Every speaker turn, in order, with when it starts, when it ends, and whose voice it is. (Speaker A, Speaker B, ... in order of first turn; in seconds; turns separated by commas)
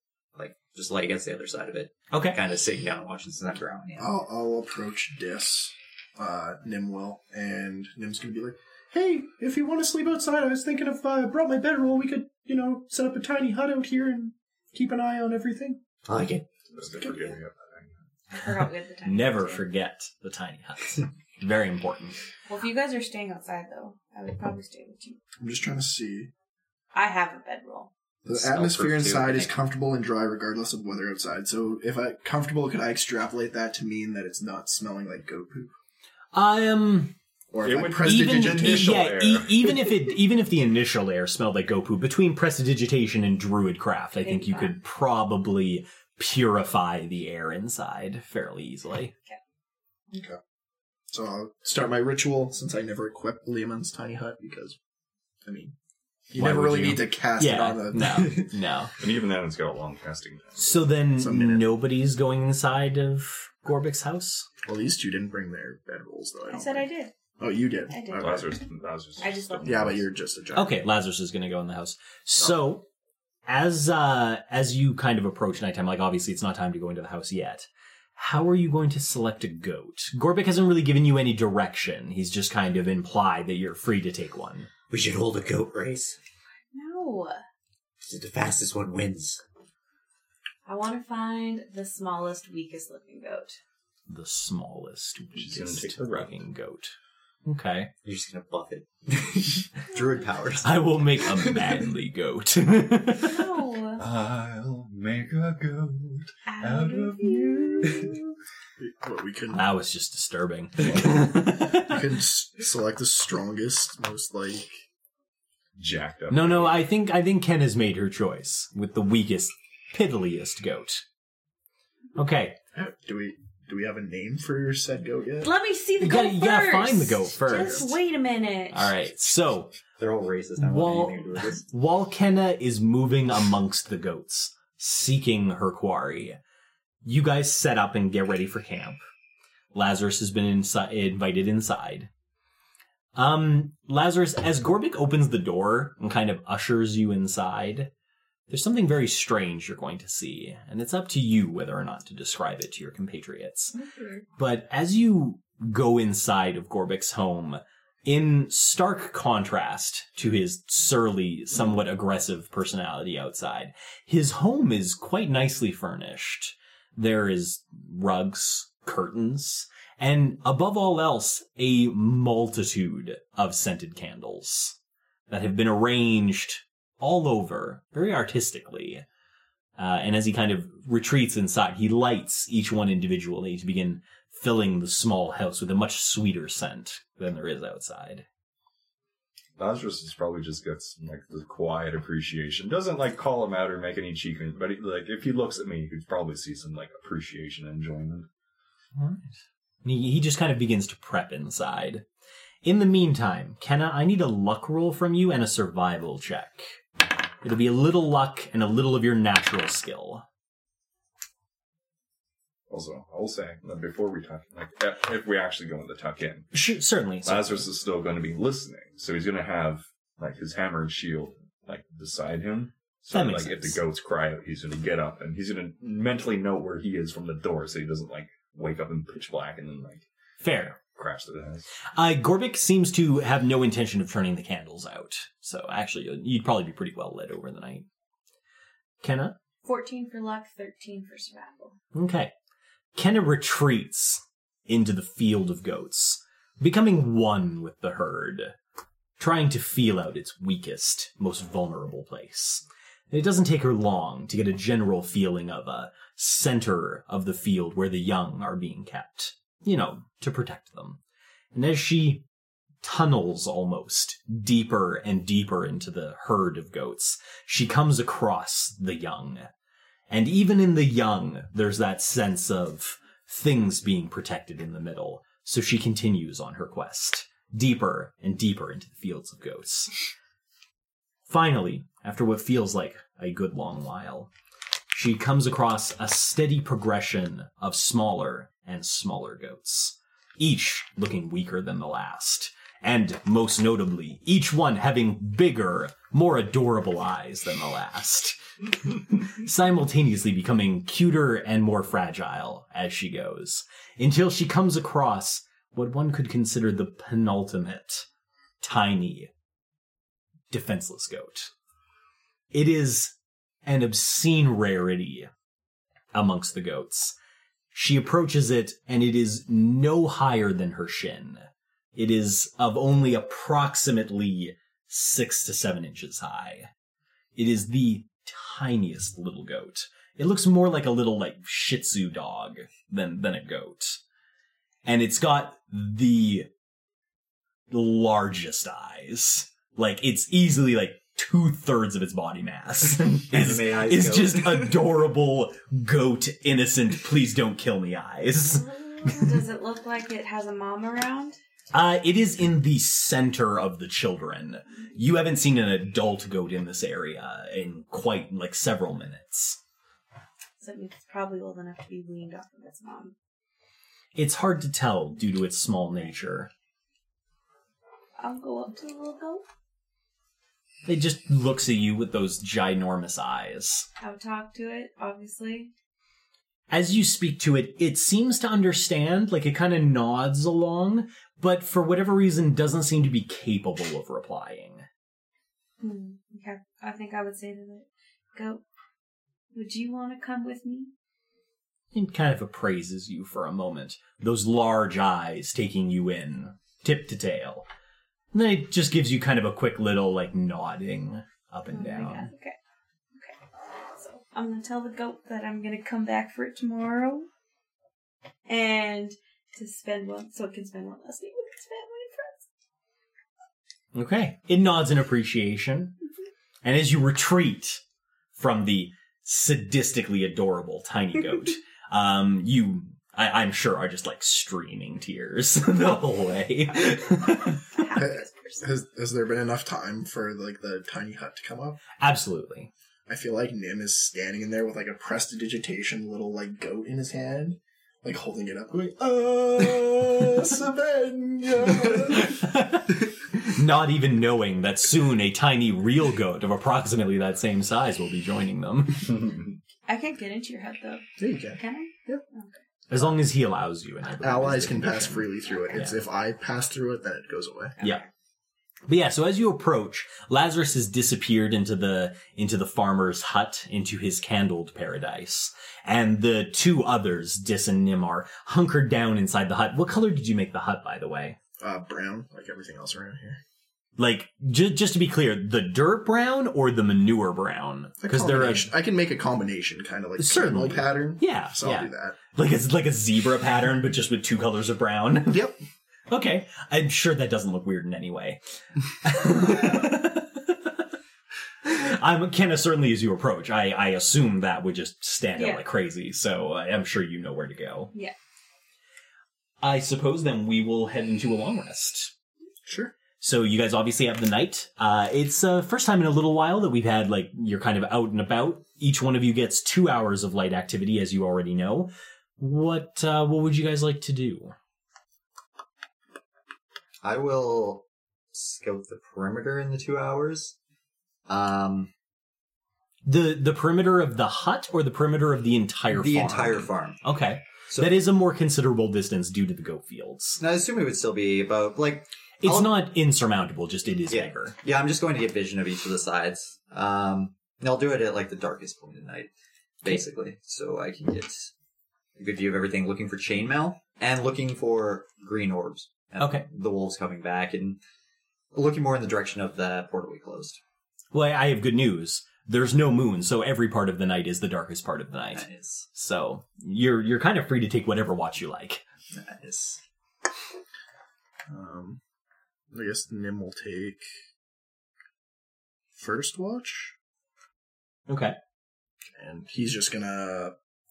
Speaker A: 0.3-4.1, Speaker B: 2.1-2.4, Speaker C: 4.0-15.8, Speaker A: 16.1-16.5, Speaker D: 16.7-17.9, Speaker C: 16.8-17.4, Speaker E: 18.3-19.6, Speaker B: 18.4-22.2, Speaker E: 22.5-25.2, Speaker C: 25.4-26.3, Speaker E: 26.9-27.9, Speaker C: 28.2-35.7, Speaker A: 28.3-29.6, Speaker B: 36.3-37.1, Speaker C: 37.5-39.1, Speaker D: 37.6-39.8, Speaker B: 38.0-49.1, Speaker E: 44.2-44.8, Speaker C: 50.1-50.4, Speaker C: 51.1-54.8, Speaker C: 55.5-55.8, Speaker C: 56.3-58.5, Speaker B: 56.4-58.9, Speaker D: 59.0-60.9, Speaker B: 60.6-64.5, Speaker C: 61.1-61.7, Speaker C: 64.7-66.9, Speaker E: 66.5-67.1, Speaker C: 67.4-68.5, Speaker E: 67.9-68.5, Speaker D: 68.1-70.1, Speaker E: 69.2-69.9, Speaker C: 69.6-70.8, Speaker B: 70.5-72.8, Speaker B: 73.5-84.7, Speaker A: 84.9-86.2, Speaker E: 86.7-87.4, Speaker A: 88.1-89.4, Speaker E: 90.7-93.6, Speaker B: 94.1-96.9, Speaker D: 95.4-96.3, Speaker B: 97.5-97.9, Speaker A: 98.0-101.8, Speaker B: 100.6-103.4, Speaker E: 103.2-104.0, Speaker D: 104.0-108.2, Speaker E: 106.5-108.2, Speaker C: 108.8-109.7, Speaker B: 109.5-112.0, Speaker C: 111.0-114.8, Speaker D: 115.8-116.8, Speaker B: 116.3-121.0, Speaker B: 122.2-122.6, Speaker C: 122.8-125.5, Speaker E: 125.4-128.9, Speaker B: 126.0-128.0, Speaker B: 128.7-129.8, Speaker A: 130.0-131.7, Speaker B: 130.6-136.4, Speaker B: 137.0-139.0, Speaker B: 139.7-142.1, Speaker B: 143.2-147.9, Speaker B: 148.5-153.8, Speaker E: 153.9-154.2, Speaker B: 154.4-174.8, Speaker B: 175.3-179.0, Speaker B: 179.8-188.3, Speaker D: 189.6-198.3, Speaker B: 198.9-202.1, Speaker B: 202.6-206.8, Speaker B: 207.4-210.3, Speaker D: 212.7-216.5, Speaker B: 216.5-217.7, Speaker D: 217.2-230.1, Speaker B: 223.1-223.8, Speaker B: 230.4-230.8, Speaker D: 230.9-231.7, Speaker B: 231.9-237.9, Speaker B: 239.0-239.4, Speaker E: 239.7-241.8, Speaker B: 241.9-242.3, Speaker B: 242.9-248.6, Speaker B: 249.2-261.0, Speaker B: 261.5-262.2, Speaker B: 262.8-269.5, Speaker B: 270.1-280.0, Speaker B: 281.3-284.3, Speaker B: 284.9-308.1, Speaker B: 308.6-309.3, Speaker B: 310.5-311.5, Speaker B: 312.5-313.1, Speaker B: 313.6-315.3, Speaker B: 316.1-317.2, Speaker B: 317.7-326.7, Speaker B: 327.4-334.0, Speaker B: 334.9-336.5, Speaker B: 337.7-349.4, Speaker A: 343.3-344.8, Speaker E: 348.4-351.4, Speaker B: 351.7-359.6, Speaker E: 360.6-363.1, Speaker B: 364.1-366.5, Speaker E: 368.2-369.4, Speaker B: 370.9-373.9, Speaker E: 374.0-375.7, Speaker B: 376.7-384.9, Speaker E: 385.8-388.6, Speaker E: 389.5-390.9, Speaker B: 391.9-397.7, Speaker B: 398.3-402.3, Speaker E: 401.7-402.6, Speaker E: 403.9-407.3, Speaker E: 408.5-412.5, Speaker B: 413.9-415.9, Speaker B: 416.6-417.8, Speaker B: 418.4-427.6, Speaker E: 427.7-428.7, Speaker C: 427.9-431.8, Speaker B: 432.0-432.7, Speaker C: 433.1-442.4, Speaker B: 442.0-449.4, Speaker E: 449.9-452.6, Speaker C: 451.2-452.2, Speaker B: 452.9-456.0, Speaker C: 454.2-457.8, Speaker E: 457.8-458.1, Speaker B: 458.9-471.4, Speaker C: 471.6-473.4, Speaker B: 474.0-478.7, Speaker C: 478.0-482.2, Speaker B: 480.2-485.5, Speaker C: 485.3-485.6, Speaker B: 486.1-488.4, Speaker B: 489.0-490.9, Speaker B: 491.6-497.9, Speaker E: 495.4-495.6, Speaker B: 499.6-502.1, Speaker C: 502.6-502.9, Speaker B: 503.2-514.5, Speaker A: 517.0-520.5, Speaker A: 521.3-521.9, Speaker B: 523.0-530.4, Speaker A: 525.9-527.0, Speaker A: 530.4-532.8, Speaker B: 532.4-534.6, Speaker A: 534.1-539.3, Speaker A: 539.8-541.5, Speaker A: 542.2-547.8, Speaker B: 546.2-546.5, Speaker A: 548.5-550.6, Speaker B: 551.1-558.9, Speaker A: 555.4-555.9, Speaker A: 559.1-559.8, Speaker C: 561.5-562.0, Speaker C: 562.7-564.0, Speaker C: 566.0-567.0, Speaker B: 568.1-568.4, Speaker C: 569.2-570.5